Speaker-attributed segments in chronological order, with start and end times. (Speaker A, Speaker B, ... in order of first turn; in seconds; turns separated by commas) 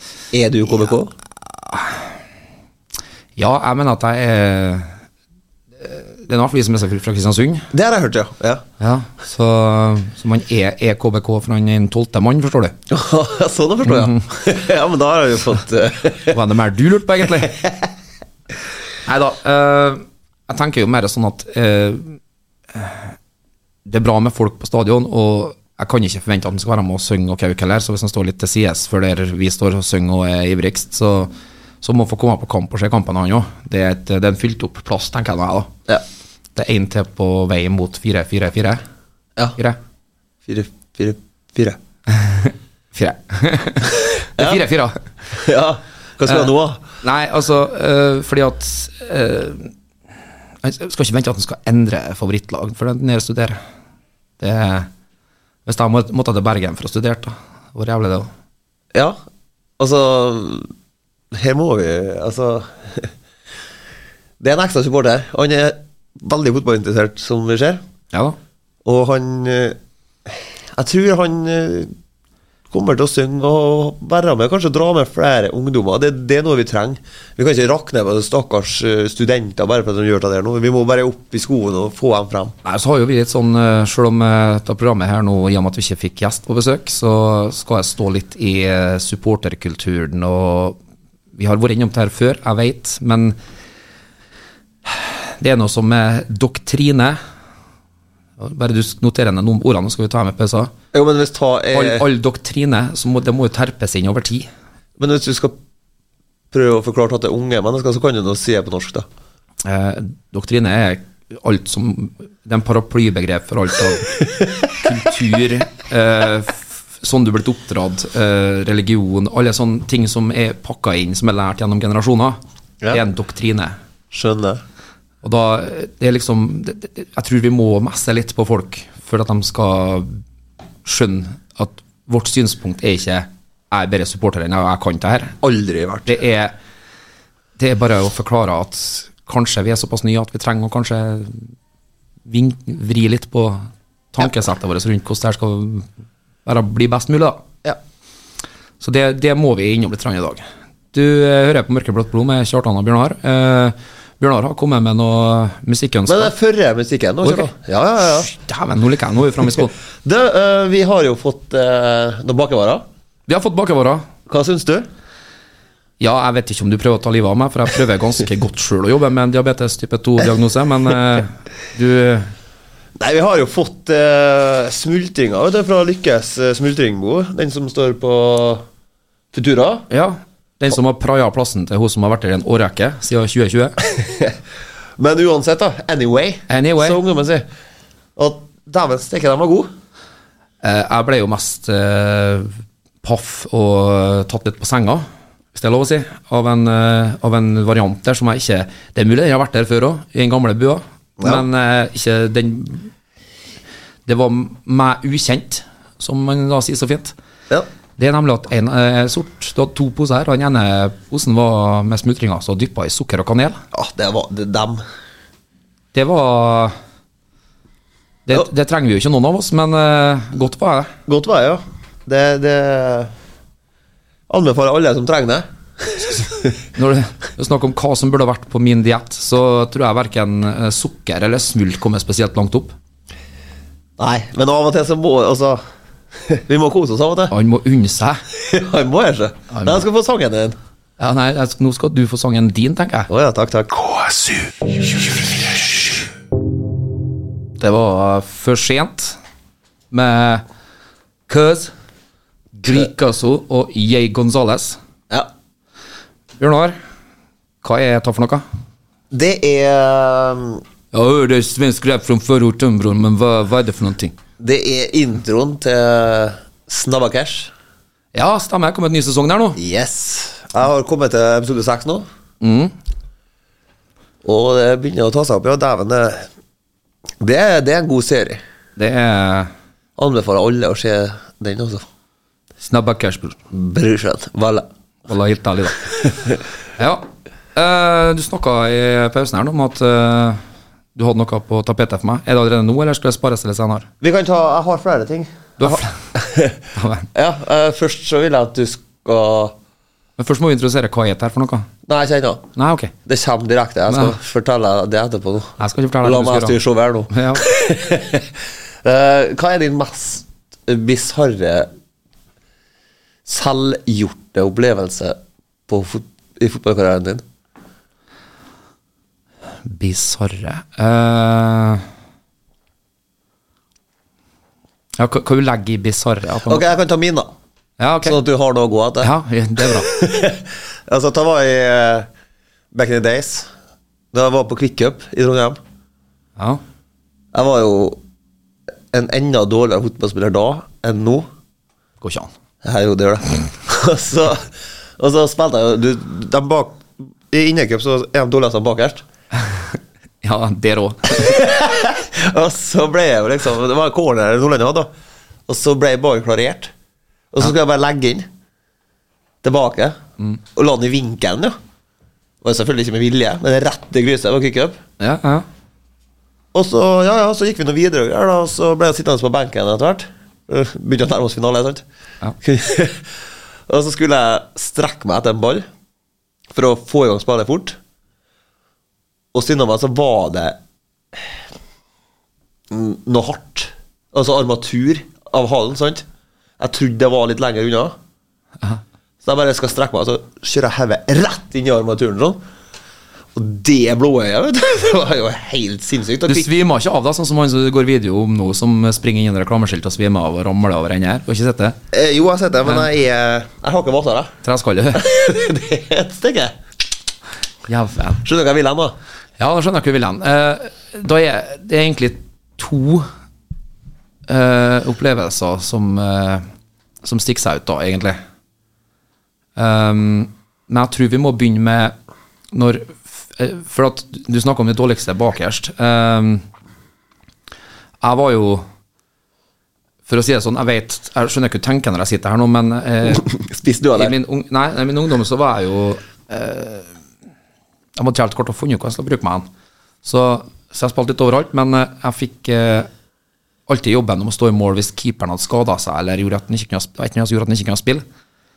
Speaker A: 0.3-1.1, Speaker B: 3.4-4.9, Speaker B: 5.8-7.7, Speaker A: 7.7-8.6, Speaker B: 8.8-12.8, Speaker A: 12.9-16.4, Speaker B: 13.8-14.2, Speaker B: 16.3-17.6, Speaker B: 19.1-22.2, Speaker B: 22.7-23.1, Speaker B: 23.9-35.7, Speaker B: 36.5-38.8, Speaker A: 40.5-41.8, Speaker B: 42.1-45.1, Speaker A: 44.4-44.6, Speaker A: 45.3-46.8, Speaker B: 46.3-49.7, Speaker B: 50.6-53.6, Speaker B: 54.4-54.9, Speaker B: 55.6-58.3, Speaker A: 59.8-60.7, Speaker A: 61.3-63.1, Speaker A: 64.4-67.8, Speaker B: 68.1-68.4, Speaker A: 68.8-71.9, Speaker A: 72.7-82.5, Speaker B: 82.6-90.8, Speaker B: 91.3-93.4, Speaker B: 94.8-97.2, Speaker B: 98.4-100.7, Speaker A: 100.9-102.0, Speaker B: 101.7-104.5, Speaker A: 105.0-105.5, Speaker A: 106.5-109.0, Speaker B: 109.6-122.4, Speaker B: 122.9-123.8, Speaker A: 124.1-124.6, Speaker B: 125.2-130.2, Speaker B: 130.8-135.4, Speaker A: 135.4-136.2, Speaker B: 136.1-136.5, Speaker B: 137.6-141.5, Speaker B: 142.3-145.9, Speaker B: 146.4-147.5, Speaker B: 148.8-156.3, Speaker A: 156.1-158.3, Speaker B: 157.2-157.5, Speaker B: 158.1-159.7, Speaker A: 160.0-162.8, Speaker B: 163.3-164.0, Speaker A: 164.3-164.9, Speaker B: 166.0-172.3, Speaker A: 173.0-178.6, Speaker A: 179.3-179.8, Speaker B: 179.9-183.8, Speaker A: 183.8-184.3, Speaker A: 185.0-187.4, Speaker B: 186.5-187.0, Speaker A: 188.2-189.7, Speaker B: 190.6-202.9, Speaker A: 201.2-201.4, Speaker B: 204.1-207.1, Speaker B: 208.0-213.6, Speaker A: 213.7-214.8, Speaker B: 215.9-216.7, Speaker B: 218.2-220.9, Speaker A: 221.1-223.1, Speaker A: 224.3-226.6, Speaker B: 226.7-232.7, Speaker A: 234.0-235.6, Speaker A: 236.2-237.3, Speaker B: 237.3-238.2, Speaker A: 238.3-240.6, Speaker B: 239.5-239.8, Speaker B: 241.0-243.1, Speaker A: 243.1-243.9, Speaker B: 247.6-249.2, Speaker B: 249.9-250.4, Speaker B: 251.3-251.7, Speaker B: 252.6-254.8, Speaker B: 256.4-256.7, Speaker B: 257.6-258.4, Speaker A: 259.1-260.6, Speaker B: 260.9-264.1, Speaker A: 264.4-267.5, Speaker B: 268.1-269.6, Speaker A: 269.6-272.1, Speaker B: 272.4-272.7, Speaker A: 274.2-276.3, Speaker A: 277.2-278.4, Speaker B: 278.8-279.5, Speaker A: 280.0-281.8, Speaker B: 282.6-283.4, Speaker A: 283.5-284.7, Speaker B: 285.1-286.1, Speaker B: 286.8-290.4, Speaker B: 290.9-293.9, Speaker A: 294.0-296.6, Speaker B: 295.6-296.1, Speaker B: 296.7-297.1, Speaker A: 297.1-299.6, Speaker B: 300.2-301.7, Speaker A: 301.9-302.4, Speaker B: 302.6-302.9, Speaker A: 303.1-311.7, Speaker B: 303.9-304.1, Speaker B: 305.6-306.6, Speaker B: 307.1-307.4, Speaker A: 313.2-317.2, Speaker B: 319.6-321.9, Speaker B: 325.0-326.7, Speaker A: 326.4-327.3, Speaker B: 327.8-328.2, Speaker A: 328.0-332.1, Speaker B: 329.0-329.9, Speaker A: 332.7-333.5, Speaker A: 334.1-335.6, Speaker A: 337.3-338.0, Speaker A: 338.9-341.3, Speaker B: 342.0-342.3, Speaker A: 342.6-349.0, Speaker B: 350.2-351.4, Speaker A: 351.1-354.9, Speaker A: 355.5-356.7, Speaker A: 357.3-358.3, Speaker A: 359.4-360.0, Speaker A: 360.5-361.5, Speaker A: 362.4-364.8, Speaker B: 365.0-365.4, Speaker A: 366.5-371.8, Speaker A: 372.4-373.1, Speaker A: 373.7-375.6, Speaker A: 376.5-377.8, Speaker A: 379.3-380.6, Speaker A: 382.7-386.0, Speaker A: 386.6-387.9, Speaker A: 389.2-392.4, Speaker A: 393.3-396.5, Speaker B: 396.2-401.8, Speaker A: 401.9-404.3, Speaker B: 404.4-405.1, Speaker A: 404.9-406.6, Speaker B: 407.7-408.2, Speaker A: 408.2-408.9, Speaker B: 409.4-413.1, Speaker B: 414.3-416.4, Speaker B: 417.0-418.2, Speaker B: 419.6-421.9, Speaker B: 422.5-426.4, Speaker B: 428.0-428.6, Speaker B: 430.1-433.3, Speaker A: 433.1-434.1, Speaker B: 433.9-436.9, Speaker B: 438.0-439.5, Speaker B: 440.0-442.9, Speaker B: 443.7-448.0